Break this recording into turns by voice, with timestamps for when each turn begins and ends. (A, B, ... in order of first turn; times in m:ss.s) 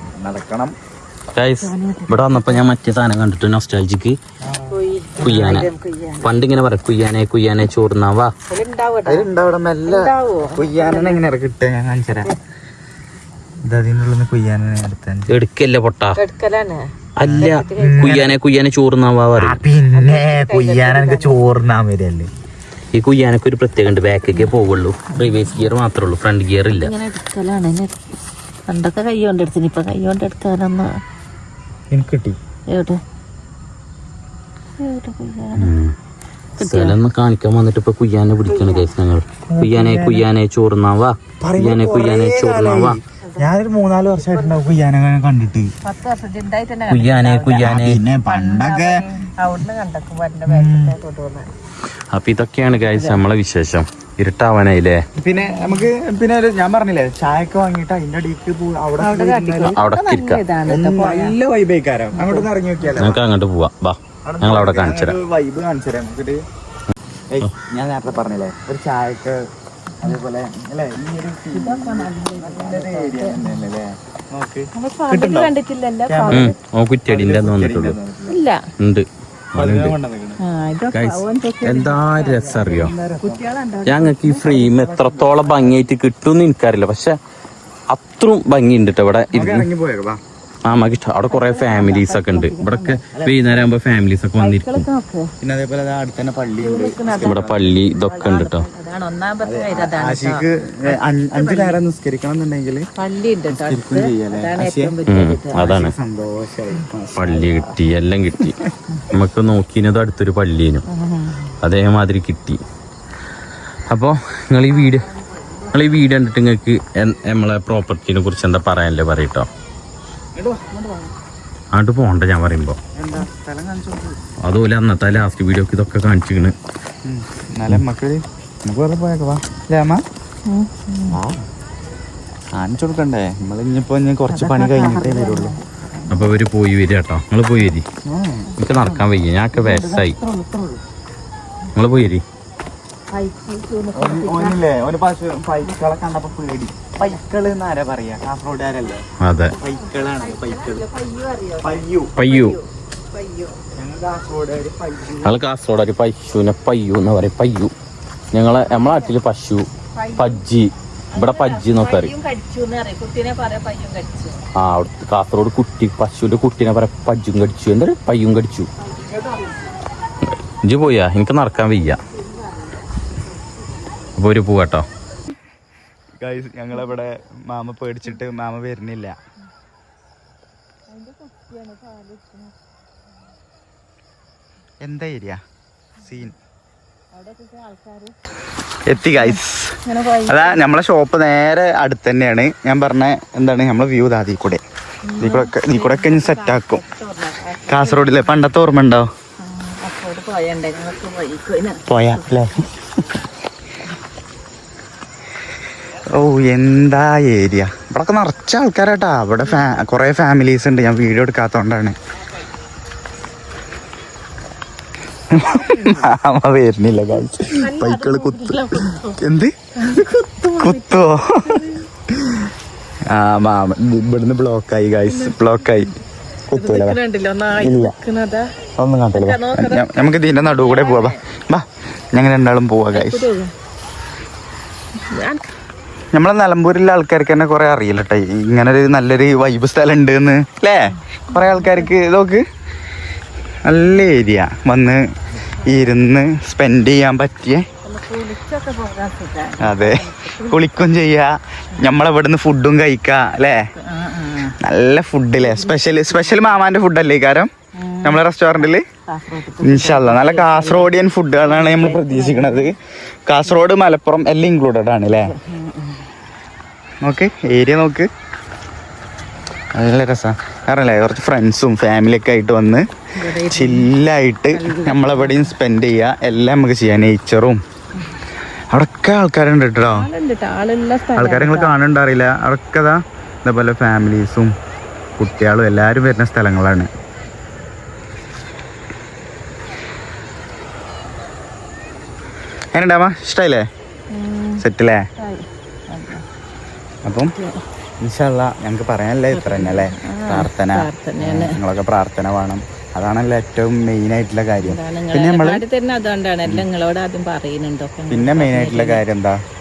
0:00.2-0:00.7 A
0:01.3-0:04.2 B
0:01.6-0:02.6 C
0:04.4-0:05.5 A
0:04.7-0:06.3 C
0:05.2-0:05.7 B
0:06.2-0:08.3 B
0:08.5-0:09.3 C
0:09.0-0:12.4 A
0:09.9-0:11.2 C
0:13.6-0:15.3 A
0:15.3-0:16.2 B
0:16.2-0:18.3 C
0:17.2-0:19.6 B
0:17.2-0:18.4 A
0:19.4-0:22.3 A
0:19.9-0:21.5 C
0:22.9-0:26.9 B
0:25.2-0:25.6 C
0:26.7-0:28.0 C
0:28.7-0:31.0 C
0:31.9-0:32.4 A
0:32.7-0:33.0 C
0:34.8-0:35.7 C
0:35.5-0:36.0 B
0:36.6-0:43.0 B
0:36.6-0:37.0 C
0:38.5-0:38.8 C
0:39.5-0:40.2 A
0:41.4-0:45.7 A
0:45.8-0:47.7 C
0:46.9-0:48.0 B
0:47.6-0:49.0 A
0:48.2-0:51.5 C
0:50.5-0:51.0 A
0:52.1-0:55.0 B
0:52.7-0:53.2 C
0:55.2-0:59.8 A
0:55.4-0:55.9 C
0:59.0-1:01.4 C
0:59.6-1:00.4 B
1:00.6-1:03.2 A
1:02.1-1:02.5 C
1:03.0-1:05.2 B
1:04.2-1:06.4 A
1:07.3-1:09.4 A
1:10.0-1:15.5 A
1:11.5-1:13.7 C
1:14.7-1:16.6 C
1:16.1-1:16.5 A
1:16.3-1:18.0 B
1:17.1-1:18.4 A
1:18.3-1:18.6 C
1:18.8-1:20.0 B
1:19.6-1:20.4 A
1:20.4-1:24.6 C
1:20.9-1:22.9 B
1:22.3-1:23.4 A
1:23.9-1:27.2 B
1:24.4-1:25.8 A
1:27.9-1:29.6 B
1:29.3-1:30.2 A
1:30.6-1:34.9 B
1:31.2-1:33.0 C
1:33.1-1:33.7 A
1:34.4-1:35.3 C
1:35.4-1:37.7 A
1:36.6-1:41.8 C
1:37.1-1:38.6 B
1:39.4-1:42.8 A
1:43.0-1:45.7 C
1:43.5-1:45.0 A
1:45.1-1:45.9 B
1:45.5-1:47.7 A
1:47.2-1:48.6 B
1:48.4-1:48.7 A
1:49.1-1:50.8 B
1:50.9-1:51.5 C
1:51.6-1:52.6 B
1:53.9-1:55.1 B
1:55.7-1:59.5 B
2:00.4-2:01.1 A
2:01.7-2:02.8 B
2:03.0-2:04.2 A
2:04.4-2:06.6 B
2:07.0-2:10.0 A
2:10.5-2:11.2 C
2:11.1-2:11.4 A
2:12.6-2:15.5 A
2:14.3-2:16.4 C
2:16.1-2:17.9 B
2:18.1-2:18.6 A
2:18.6-2:20.2 B
2:18.7-2:19.0 C
2:19.6-2:20.8 A
2:21.8-2:22.2 B
2:23.1-2:24.6 C
2:23.9-2:29.0 A
2:29.2-2:29.6 B
2:29.6-2:30.8 A
2:30.3-2:33.6 C
2:31.6-2:32.2 A
2:32.2-2:32.6 B
2:33.8-2:35.4 A
2:35.2-2:37.7 B
2:38.3-2:42.1 B
2:38.7-2:39.1 C
2:40.0-2:40.4 C
2:41.1-2:44.4 C
2:44.6-2:48.7 B
2:50.6-2:52.0 B
2:54.2-2:54.8 B
2:56.2-2:59.1 A
3:00.9-3:02.5 C
3:04.8-3:05.4 A
3:06.0-3:06.4 A
3:07.1-3:08.1 C
3:08.8-3:14.6 A
3:09.0-3:10.6 C
3:15.1-3:18.3 C
3:15.2-3:16.8 A
3:17.6-3:19.1 A
3:19.4-3:22.6 C
3:21.9-3:22.7 A
3:26.1-3:32.0 A
3:29.5-3:29.8 C
3:35.3-3:39.6 A
3:35.5-3:36.1 C
3:37.5-3:39.2 C
3:39.8-3:41.9 C
3:40.6-3:42.5 A
3:43.1-3:46.0 A
3:45.1-3:45.9 C
3:46.5-3:47.0 A
3:46.5-3:48.5 C
3:47.5-3:48.0 A
3:48.8-3:53.3 A
3:49.1-3:51.2 C
3:52.9-3:53.5 C
3:55.1-3:55.4 C
3:56.1-4:02.4 A
4:01.3-4:01.9 C
4:03.6-4:05.0 A
4:05.6-4:05.9 C
4:05.6-4:07.6 A
4:07.8-4:10.6 C
4:09.6-4:13.6 A
4:13.8-4:14.6 C
4:14.5-4:17.5 A
4:15.5-4:15.7 C
4:17.8-4:22.8 C
4:18.0-4:18.8 A
4:19.6-4:25.4 A
4:25.2-4:26.1 C
4:27.0-4:28.1 A
4:29.8-4:32.9 A
4:33.2-4:33.9 C
4:33.4-4:37.6 A
4:34.5-4:35.5 C
4:38.7-4:40.1 A
4:39.8-4:41.7 C
4:41.1-4:44.5 A
4:45.2-4:46.9 A
4:52.7-4:53.6 A
4:54.1-4:54.6 C
4:54.6-4:55.0 A
4:55.2-4:56.2 C
4:57.0-4:57.4 A
4:58.0-5:05.6 A
4:59.3-5:01.6 C
5:04.6-5:09.0 C
5:08.1-5:09.4 A